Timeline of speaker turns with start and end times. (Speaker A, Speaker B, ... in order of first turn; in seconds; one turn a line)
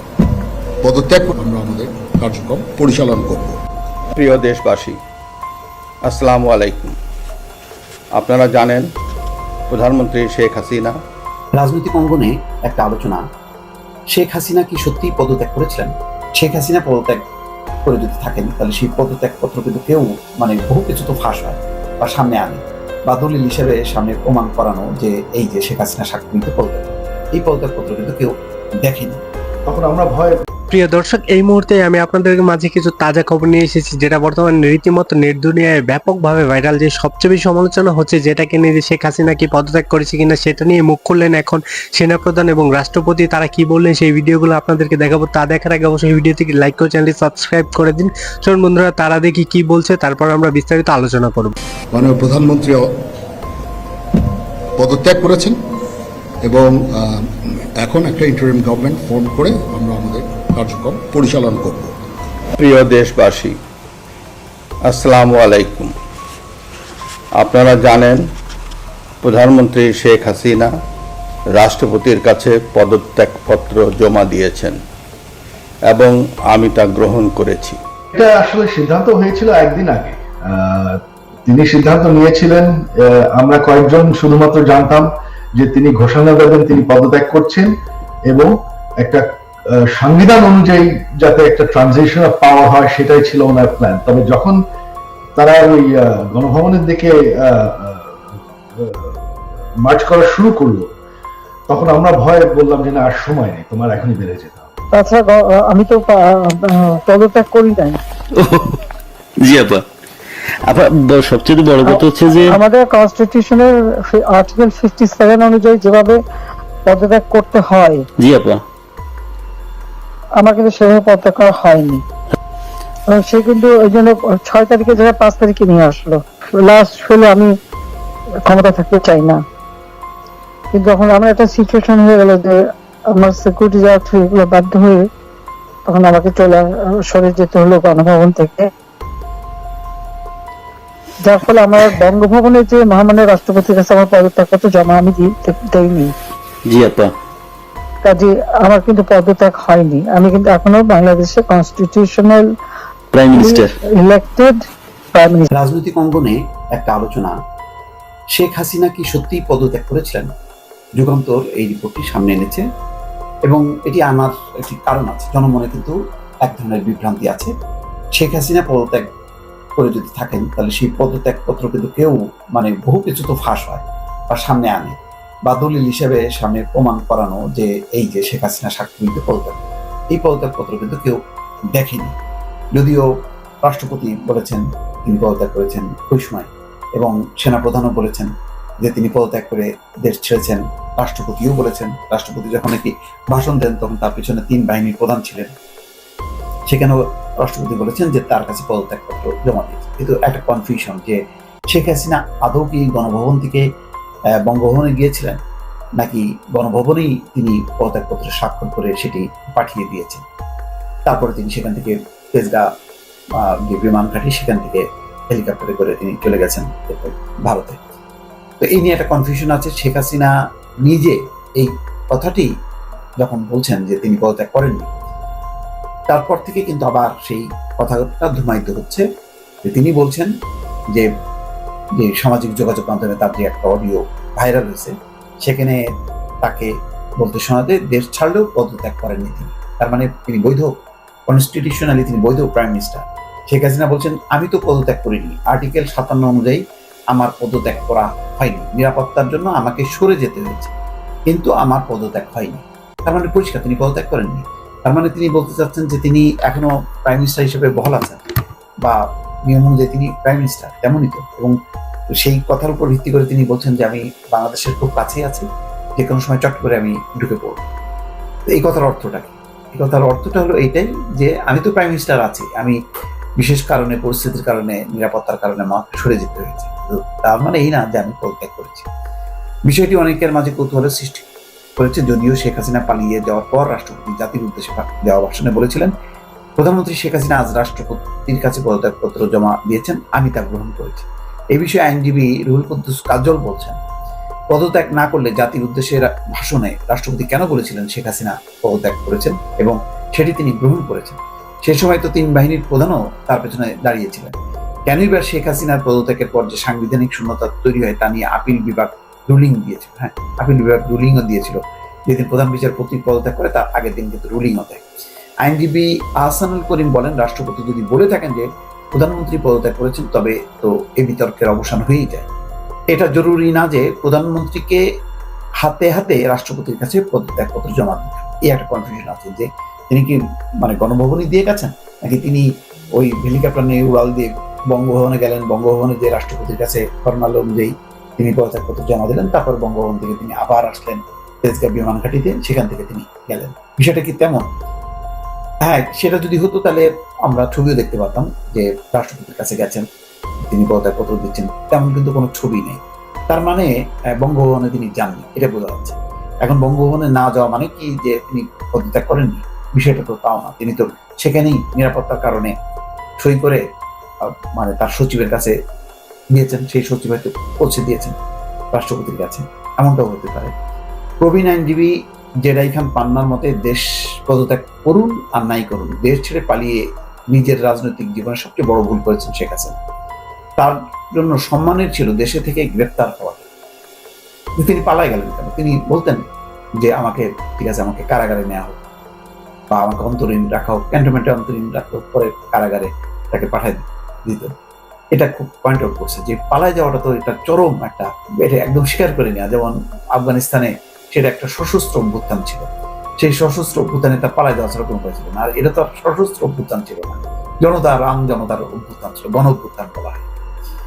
Speaker A: 0.8-3.6
Speaker B: 4.2-5.0
Speaker B: 6.1-6.9
Speaker B: 8.2-8.9
Speaker B: 9.7-11.0
Speaker C: 11.5-13.2
Speaker C: 14.1-17.2
Speaker C: 17.9-29.2
Speaker D: 29.7-30.3
Speaker E: 30.7-51.5
Speaker A: 51.9-52.9
Speaker A: 54.8-55.6
Speaker A: 56.4-61.9
Speaker B: 62.6-63.5
Speaker B: 64.9-65.9
Speaker B: 67.4-68.2
Speaker B: 69.2-70.7
Speaker B: 71.6-74.8
Speaker B: 75.9-77.8
Speaker D: 78.1-87.7
Speaker D: 88.3-89.3
Speaker D: 89.8-94.6
Speaker D: 95.4-98.2
Speaker D: 98.8-99.2
Speaker D: 99.8-100.9
Speaker D: 101.7-104.7
Speaker F: 104.9-108.0
Speaker G: 108.4-108.8
Speaker G: 109.4-109.8
Speaker G: 110.7-112.6
Speaker F: 111.8-116.2
Speaker F: 116.9-118.1
Speaker G: 118.2-118.6
Speaker F: 120.4-122.0
Speaker F: 123.1-127.5
Speaker F: 128.4-129.4
Speaker F: 130.7-132.6
Speaker F: 133.1-135.0
Speaker F: 135.9-138.7
Speaker F: 141.2-146.1
Speaker G: 146.7-147.1
Speaker F: 148.0-152.4
Speaker G: 153.1-153.8
Speaker F: 153.3-154.6
Speaker F: 155.2-155.5
Speaker C: 155.5-157.3
Speaker C: 158.3-160.3
Speaker C: 161.0-162.6
Speaker C: 163.4-167.5
Speaker C: 168.2-169.1
Speaker C: 169.8-181.2
Speaker C: 181.7-182.2
Speaker C: 182.8-183.1
Speaker C: 183.6-195.5
Speaker C: 196.7-201.2
Speaker C: 201.7-203.7
Speaker C: 204.4-205.4
Speaker C: 206.0-210.2
Speaker C: 211.1-212.7
Speaker C: 213.7-217.8
Speaker C: 218.6-220.3
Speaker C: 220.8-222.5
Speaker C: 223.2-224.9
Speaker C: 226.1-229.1
Speaker C: 229.6-230.3
Speaker C: 232.0-235.8
Speaker C: 236.4-240.7
Speaker C: 241.3-250.7
Speaker C: 251.3-258.2
Speaker C: 258.8-261.5
Speaker C: 262.2-265.5
Speaker C: 266.0-267.6
Speaker C: 268.5-272.8
Speaker C: 273.4-278.9
Speaker C: 279.7-281.2
Speaker C: 281.8-285.9
Speaker C: 286.6-293.8
Speaker C: 294.5-304.4
Speaker C: 304.9-314.8
Speaker C: 315.4-322.3
Speaker C: 322.9-324.8
Speaker C: 325.6-344.5
Speaker C: 345.6-349.9
Speaker C: 350.5-362.5
Speaker C: 363.2-363.6
Speaker C: 364.2-365.5
Speaker C: 366.3-368.2
Speaker C: 368.7-370.5
Speaker C: 371.2-371.9
Speaker C: 372.4-379.8
Speaker C: 380.6-383.4
Speaker C: 384.6-386.2
Speaker C: 386.8-388.8
Speaker C: 389.7-394.5
Speaker C: 395.1-402.7
Speaker C: 403.2-410.2